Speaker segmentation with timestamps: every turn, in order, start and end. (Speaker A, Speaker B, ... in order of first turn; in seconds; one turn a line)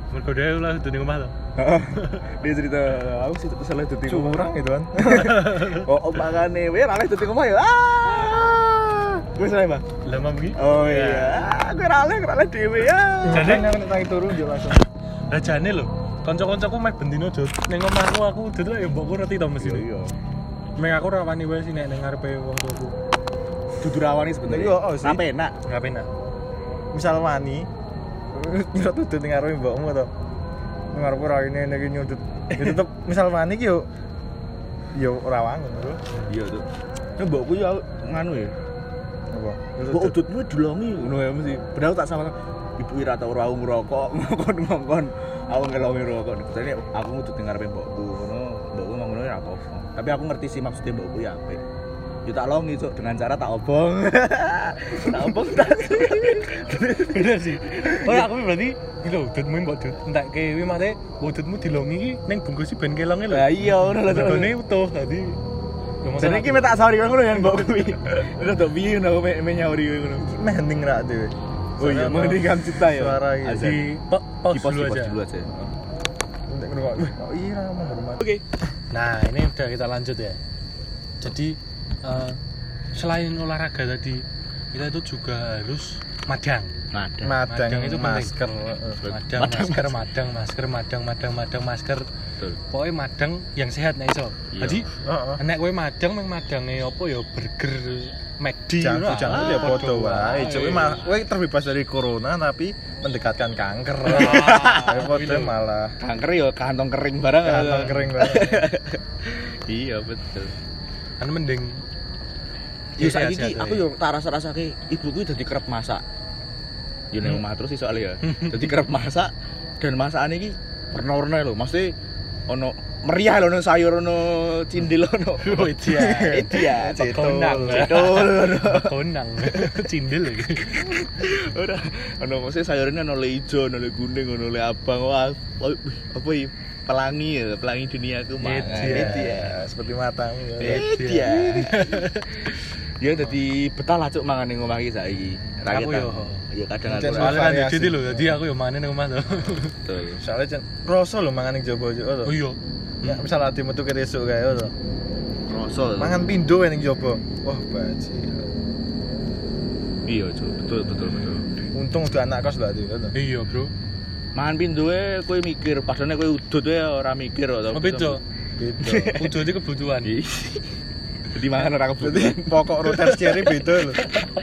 Speaker A: 0.1-1.3
Speaker B: 1.6-4.5
Speaker A: 1.9-2.2
Speaker C: 4.0-5.5
Speaker B: 5.0-9.8
Speaker A: 5.1-5.9
Speaker A: 10.0-11.5
Speaker B: 10.6-13.7
Speaker C: 13.2-14.8
Speaker A: 13.3-13.7
Speaker A: 15.3-19.9
Speaker B: 19.6-20.1
Speaker A: 20.8-22.9
Speaker B: 23.8-25.5
Speaker C: 24.5-25.2
Speaker A: 25.6-26.1
Speaker C: 26.9-27.7
Speaker C: 28.3-30.1
Speaker C: 30.9-33.9
Speaker C: 34.9-36.0
Speaker B: 36.3-36.6
Speaker B: 37.2-38.5
Speaker C: 39.3-40.2
Speaker B: 39.9-51.6
Speaker B: 52.2-58.3
Speaker A: 56.9-65.4
Speaker B: 63.3-64.5
Speaker A: 66.0-66.8
Speaker B: 66.2-70.3
Speaker C: 70.2-73.8
Speaker B: 71.8-74.0
Speaker A: 73.6-75.2
Speaker B: 74.5-75.7
Speaker C: 76.5-78.2
Speaker A: 78.9-80.4
Speaker A: 81.2-82.4
Speaker A: 82.9-86.7
Speaker B: 86.9-87.4
Speaker C: 87.2-89.0
Speaker A: 87.5-88.3
Speaker B: 89.0-90.0
Speaker A: 89.0-92.1
Speaker A: 92.7-94.9
Speaker B: 94.5-94.8
Speaker C: 95.0-95.4
Speaker A: 95.4-100.8
Speaker C: 98.8-106.0
Speaker B: 99.2-101.1
Speaker A: 104.1-105.5
Speaker B: 104.1-105.0
Speaker B: 106.0-110.5
Speaker C: 107.4-108.7
Speaker A: 111.2-111.8
Speaker A: 113.0-113.9
Speaker B: 113.0-116.0
Speaker B: 117.1-121.9
Speaker A: 118.2-118.7
Speaker B: 122.5-129.8
Speaker A: 125.4-131.0
Speaker C: 126.1-128.0
Speaker B: 130.7-139.6
Speaker A: 138.4-139.4
Speaker C: 138.7-140.9
Speaker A: 140.6-142.4
Speaker B: 140.6-147.5
Speaker A: 145.7-146.4
Speaker C: 146.9-148.4
Speaker A: 147.1-149.8
Speaker B: 149.7-150.2
Speaker C: 150.2-152.4
Speaker A: 152.2-153.2
Speaker C: 153.0-154.7
Speaker B: 155.5-156.2
Speaker C: 156.0-158.6
Speaker B: 160.1-161.5
Speaker C: 161.7-163.1
Speaker A: 163.1-163.7
Speaker B: 164.3-168.2
Speaker A: 167.7-168.2
Speaker C: 168.6-169.2
Speaker B: 168.8-169.4
Speaker A: 169.2-170.2
Speaker B: 170.0-170.7
Speaker B: 171.3-172.8
Speaker C: 172.0-174.0
Speaker A: 173.0-174.2